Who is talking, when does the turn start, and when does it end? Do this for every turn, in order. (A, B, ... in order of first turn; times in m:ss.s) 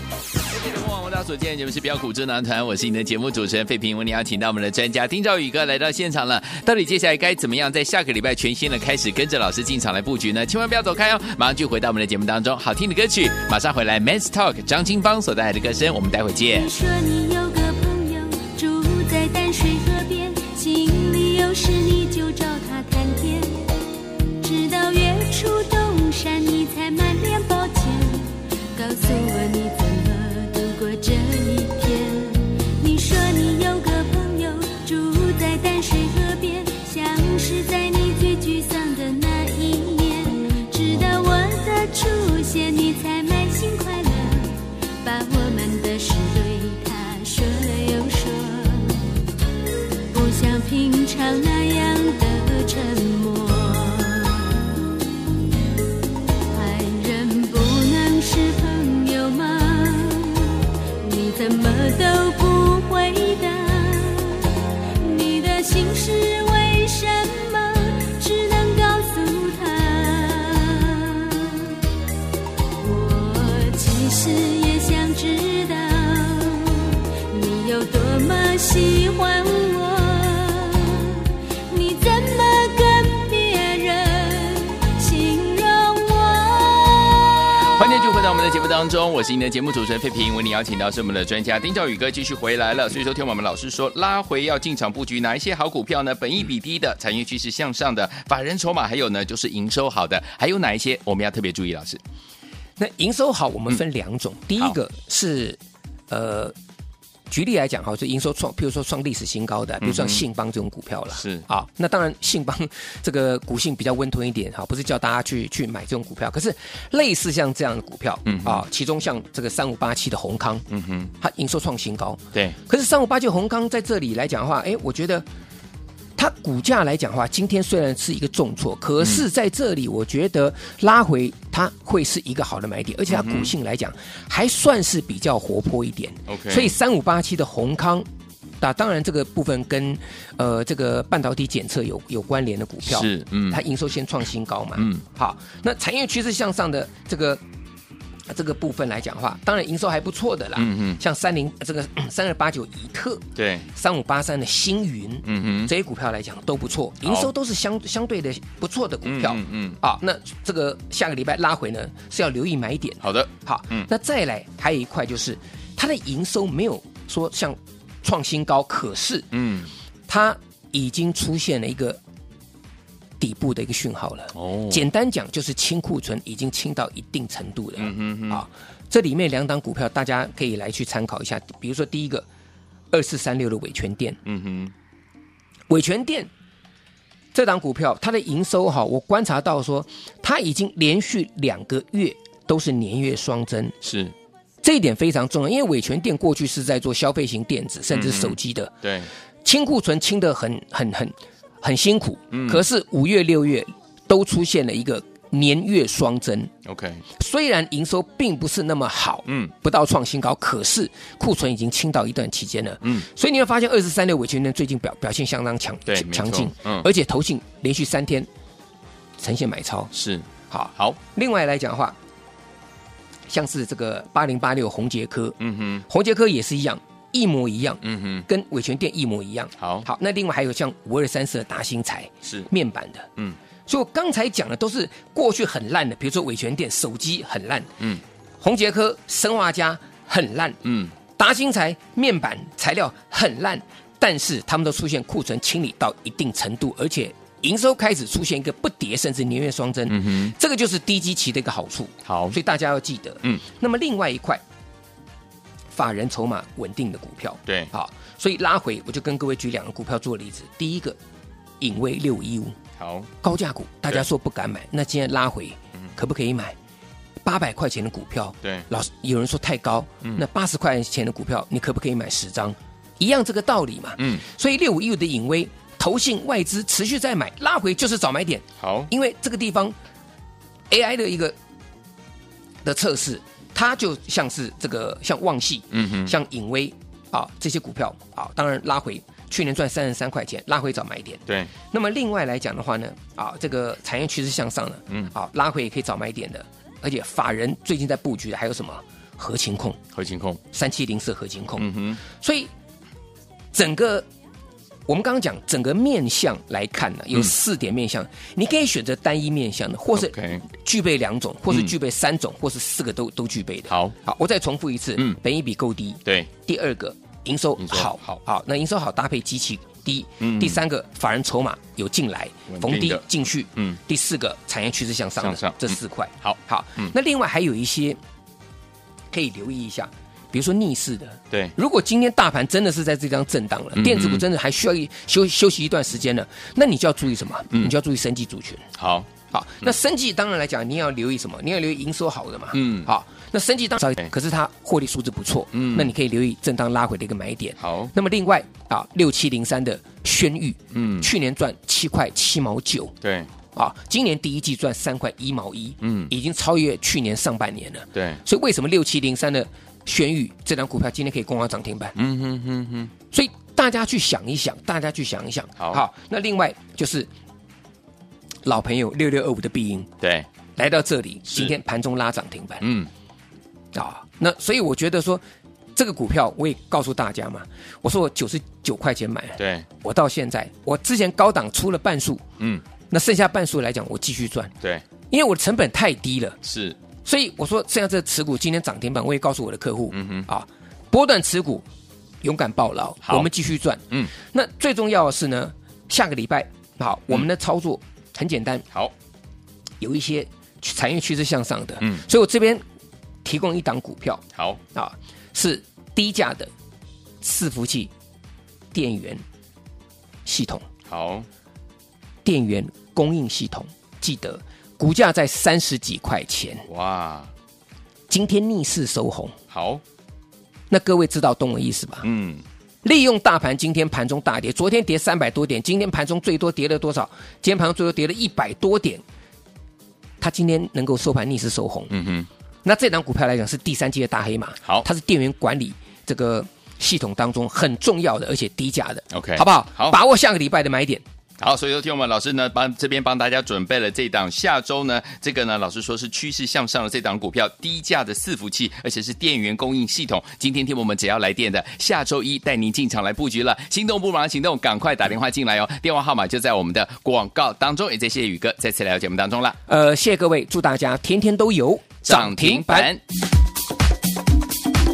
0:00.5-0:16.7 A
0:16.5-0:23.7 B
0:24.4-0:49.1 B
0:50.1-0:54.7 B
0:56.5-1:11.8 B
1:12.8-1:27.6 B
1:27.6-1:42.0 A
1:42.8-1:45.6 C
1:46.1-1:46.6 C
1:47.3-2:00.6 C
1:49.8-1:50.2 A
1:51.1-1:51.4 A
1:58.2-1:58.6 A
2:00.7-2:01.1 A
2:01.2-2:05.3 C
2:06.2-2:18.1 C
2:13.1-2:13.5 A
2:16.3-2:16.7 A
2:18.6-2:27.4 C
2:22.9-2:23.6 A
2:24.8-2:25.0 A
2:28.3-2:49.3 C
2:30.6-2:31.0 A
2:33.4-2:33.7 A
2:35.2-2:35.7 A
2:37.0-2:37.3 A
2:39.0-2:39.8 A
2:43.0-2:43.9 A
2:49.3-2:49.7 A
2:50.1-2:52.0 C
2:53.2-3:02.3 C
2:54.3-2:54.8 A
2:57.8-2:58.4 A
3:02.9-3:04.2 C
3:04.2-3:04.7 A
3:05.7-3:06.3 C
3:07.3-3:13.8 C
3:13.8-3:14.1 A
3:14.6-3:18.8 C
3:17.9-3:19.1 A
3:19.4-3:26.5 C
3:22.3-3:22.6 A
3:26.6-3:27.0 A
3:27.2-3:38.3 C
3:29.3-3:29.5 A
3:35.9-3:36.9 A
3:39.2-3:39.9 C
3:39.9-3:41.0 A
3:40.5-3:42.0 C
3:43.3-3:53.1 C
3:45.4-3:45.8 A
3:47.8-3:48.3 A
3:49.6-3:49.9 A
3:53.7-3:57.7 C
3:58.4-4:00.6 C
4:00.6-4:01.0 A
4:01.2-4:14.4 C
4:09.9-4:10.3 A
4:12.1-4:12.4 A
4:15.7-4:21.0 C
4:21.6-4:22.6 C
4:22.8-4:23.1 A
4:23.2-4:26.6 C
4:27.2-4:39.8 C
4:28.4-4:28.7 A
4:34.0-4:34.2 A
4:38.6-4:38.9 A
4:40.7-4:41.4 C
4:42.6-4:59.8 C
4:45.7-4:46.1 A
4:51.3-4:51.5 A
4:59.9-5:00.4 A
5:00.5-5:02.5 C
5:01.6-5:02.0 A
5:03.5-5:04.1 C
5:04.9-5:28.0 C
5:10.0-5:10.4 A
5:13.7-5:14.0 A
5:16.0-5:16.3 A
5:17.6-5:18.2 A
5:20.2-5:20.6 A
5:22.5-5:23.0 A
5:25.2-5:26.9 A
5:29.1-5:38.6 C
5:33.8-5:34.2 A
5:38.8-5:39.1 A
5:39.3-5:52.9 C
5:42.5-5:42.9 A
5:45.5-5:45.9 A
5:47.6-5:47.9 A
5:50.7-5:51.1 A
5:53.0-5:53.3 A
5:53.6-6:02.0 C
5:55.8-5:56.1 A
5:57.9-5:58.2 A
6:02.0-6:02.9 A
6:03.1-6:07.1 C
6:08.4-6:09.9 C
6:10.0-6:10.3 A
6:10.6-6:12.7 C
6:12.6-6:12.9 A
6:13.7-6:15.2 C
6:15.8-6:22.2 C
6:19.4-6:19.7 A
6:22.9-6:24.5 C
6:25.1-6:26.4 C
6:26.4-6:26.8 A
6:27.0-6:31.7 C
6:29.9-6:30.3 A
6:32.2-6:38.6 C
6:39.8-6:42.6 C
6:43.2-6:44.2 C
6:44.3-6:44.6 A
6:44.7-6:46.5 C
6:47.2-6:47.9 C
6:48.7-6:49.2 C
6:50.2-6:50.6 C
6:50.9-6:51.3 A
6:52.2-6:56.7 C
6:56.7-6:57.3 A
6:58.1-6:59.4 C
6:59.5-6:59.8 A
7:00.7-7:02.1 C
7:02.0-7:02.4 A
7:02.8-7:09.0 C
7:10.2-7:11.9 C
7:11.9-7:12.3 A
7:12.6-7:21.0 C
7:19.1-7:20.0 A
7:21.4-7:39.6 A
7:39.7-7:42.9 C
7:42.0-7:43.0 A